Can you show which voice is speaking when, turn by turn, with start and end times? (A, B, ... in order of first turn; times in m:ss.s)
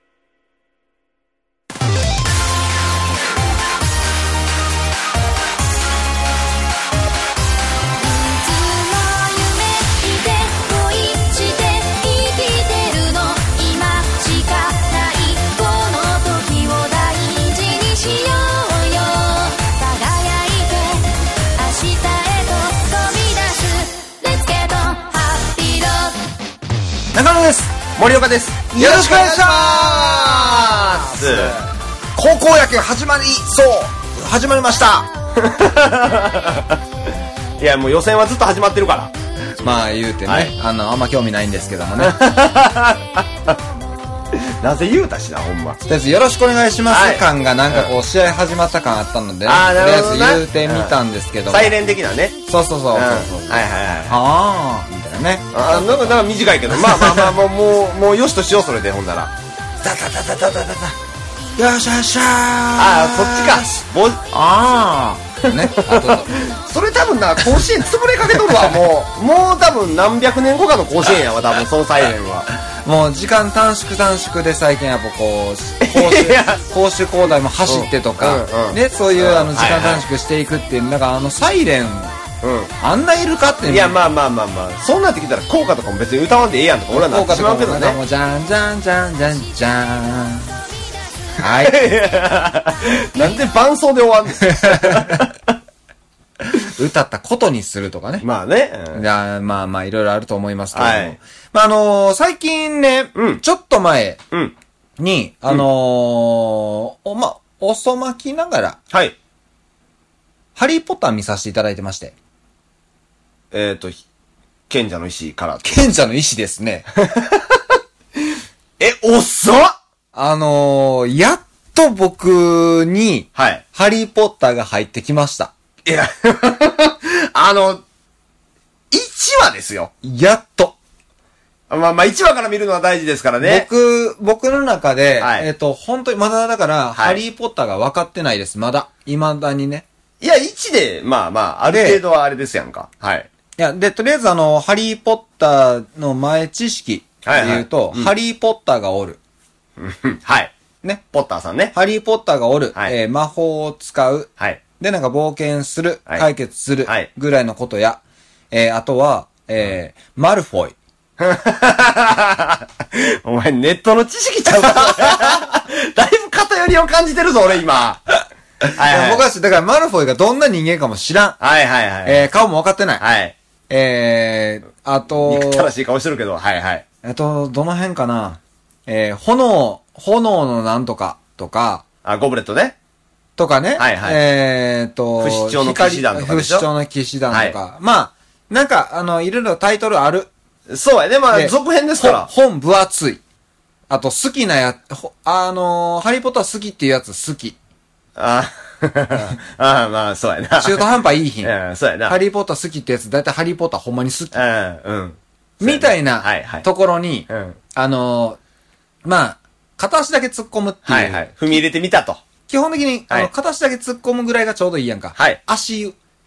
0:08.0-0:26.2 A
0:27.1-0:27.7 B
0:28.0-0:31.6 C
0:28.7-0:35.1 B
0:35.4-0:36.8 C
0:37.6-0:39.1 C
0:39.6-0:42.2 B
0:40.2-0:40.5 C
0:42.0-0:43.6 C
0:44.3-0:45.8 C
0:45.9-0:51.8 B
0:46.9-0:47.9 C
0:49.4-0:51.0 C
0:51.5-0:52.4 C
0:52.5-0:57.3 B
0:52.9-0:54.2 C
0:55.5-0:59.3 C
0:59.8-1:00.6 B
1:00.2-1:00.9 C
1:01.6-1:06.4 B
1:02.8-1:04.2 C
1:05.5-1:12.5 C
1:08.4-1:08.8 B
1:12.8-1:22.1 B
1:15.8-1:16.6 C
1:17.6-1:20.0 C
1:22.4-1:22.7 C
1:22.8-1:24.0 B
1:23.7-1:28.0 C
1:26.9-1:30.6 B
1:31.4-1:31.8 B
1:31.4-1:35.5 C
1:34.5-1:35.2 B
1:36.7-1:38.2 B
1:38.2-1:39.0 C
1:38.9-1:44.2 B
1:40.7-1:41.2 C
1:43.1-1:43.4 C
1:45.0-1:48.8 B
1:50.6-1:52.1 B
1:53.5-1:54.0 C
1:54.7-1:55.9 C
1:55.7-1:56.8 B
1:57.1-1:57.6 C
1:58.8-1:59.7 C
2:00.1-2:05.5 B
2:03.3-2:03.6 C
2:05.8-2:07.8 C
2:08.9-2:09.9 C
2:10.0-2:10.8 B
2:11.7-2:13.7 C
2:13.4-2:19.8 B
2:15.2-2:15.5 C
2:20.2-2:23.3 C
2:21.7-2:22.0 B
2:23.6-2:29.2 B
2:27.2-2:28.1 C
2:29.8-2:30.5 C
2:31.1-2:31.7 C
2:31.7-2:40.7 B
2:41.2-2:48.1 C
2:44.6-2:45.3 B
2:48.7-2:51.4 B
2:48.7-2:49.2 C
2:51.4-2:52.2 C
2:52.0-2:53.0 B
2:53.0-2:53.3 C
2:53.7-2:55.7 B
2:55.2-2:56.8 C
2:57.0-3:01.8 B
3:02.0-3:02.8 C
3:03.4-3:10.3 B
3:03.8-3:04.2 C
3:05.2-3:06.7 C
3:07.3-3:07.6 C
3:10.7-3:12.3 C
3:11.3-3:13.2 B
3:13.9-3:17.6 B
3:18.2-3:20.8 C
3:20.6-3:21.5 B
3:21.4-3:22.2 C
3:22.0-3:24.3 B
3:24.3-3:26.7 C
3:25.6-3:28.4 B
3:27.3-3:27.6 C
3:29.0-3:31.6 B
3:30.8-3:32.2 C
3:32.5-3:35.9 B